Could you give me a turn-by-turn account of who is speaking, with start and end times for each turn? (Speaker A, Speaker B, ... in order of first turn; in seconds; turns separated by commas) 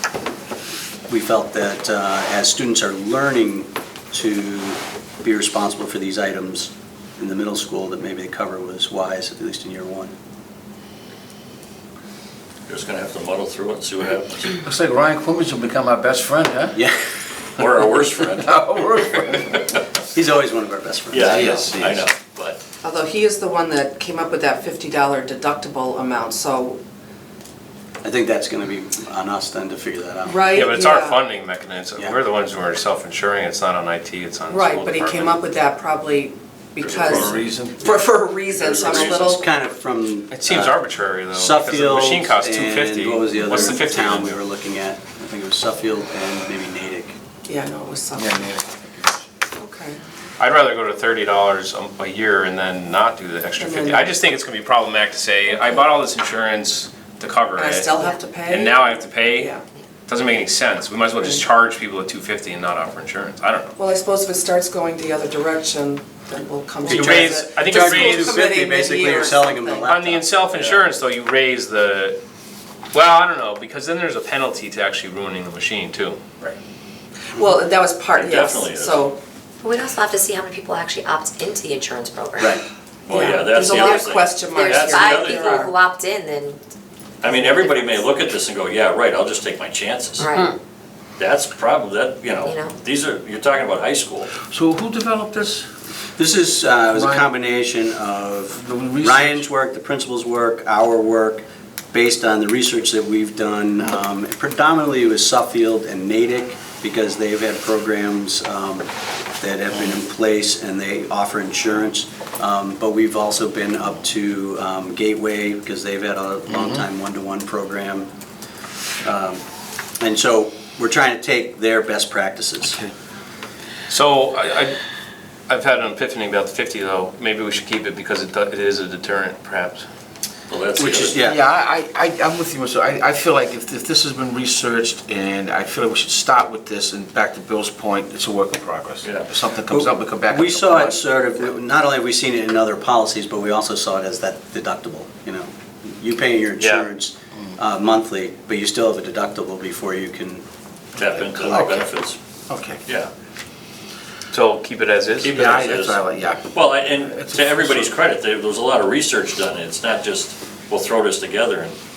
Speaker A: 1.1-10.1, Speaker B: 12.7-14.6, Speaker C: 14.6-16.8, Speaker A: 16.7-17.0, Speaker B: 17.6-19.8, Speaker C: 18.4-19.6, Speaker A: 20.1-21.6, Speaker B: 21.1-22.6, Speaker C: 21.2-22.1, Speaker D: 22.8-26.8, Speaker A: 28.0-30.7, Speaker D: 30.2-31.2, Speaker E: 30.5-35.4, Speaker D: 34.5-39.4, Speaker B: 36.8-37.5, Speaker C: 37.0-37.9, Speaker B: 38.5-39.4, Speaker A: 38.8-40.8, Speaker E: 40.3-44.4, Speaker A: 41.3-47.1, Speaker D: 47.4-48.5, Speaker C: 48.1-49.2, Speaker D: 49.5-50.0, Speaker E: 50.4-59.5, Speaker D: 53.6-54.1, Speaker D: 57.6-59.6, Speaker E: 60.1-63.7, Speaker D: 63.8-69.9, Speaker E: 66.8-68.5, Speaker A: 66.8-70.3, Speaker E: 69.8-72.2, Speaker B: 70.5-70.8, Speaker E: 72.9-76.2, Speaker D: 77.3-79.2, Speaker B: 78.1-79.1, Speaker F: 79.6-82.6, Speaker B: 83.0-85.6, Speaker D: 83.1-85.4, Speaker F: 83.7-86.6, Speaker B: 87.2-90.3, Speaker F: 87.2-88.1, Speaker F: 90.2-90.5, Speaker B: 91.2-94.3, Speaker F: 92.4-92.8, Speaker C: 94.4-95.7, Speaker A: 96.2-118.1, Speaker C: 96.9-97.3, Speaker C: 98.5-99.4, Speaker C: 116.5-116.8, Speaker A: 119.0-119.4, Speaker A: 120.0-122.8, Speaker E: 123.9-124.8, Speaker E: 125.5-129.8, Speaker B: 130.5-131.2, Speaker A: 130.8-131.4, Speaker C: 130.9-141.0, Speaker B: 139.0-139.3, Speaker A: 139.7-150.4, Speaker E: 146.6-146.9, Speaker B: 150.9-152.2, Speaker C: 151.0-151.9, Speaker C: 152.5-152.8, Speaker E: 154.3-155.4, Speaker B: 155.2-156.0, Speaker C: 155.3-157.9, Speaker B: 156.5-161.8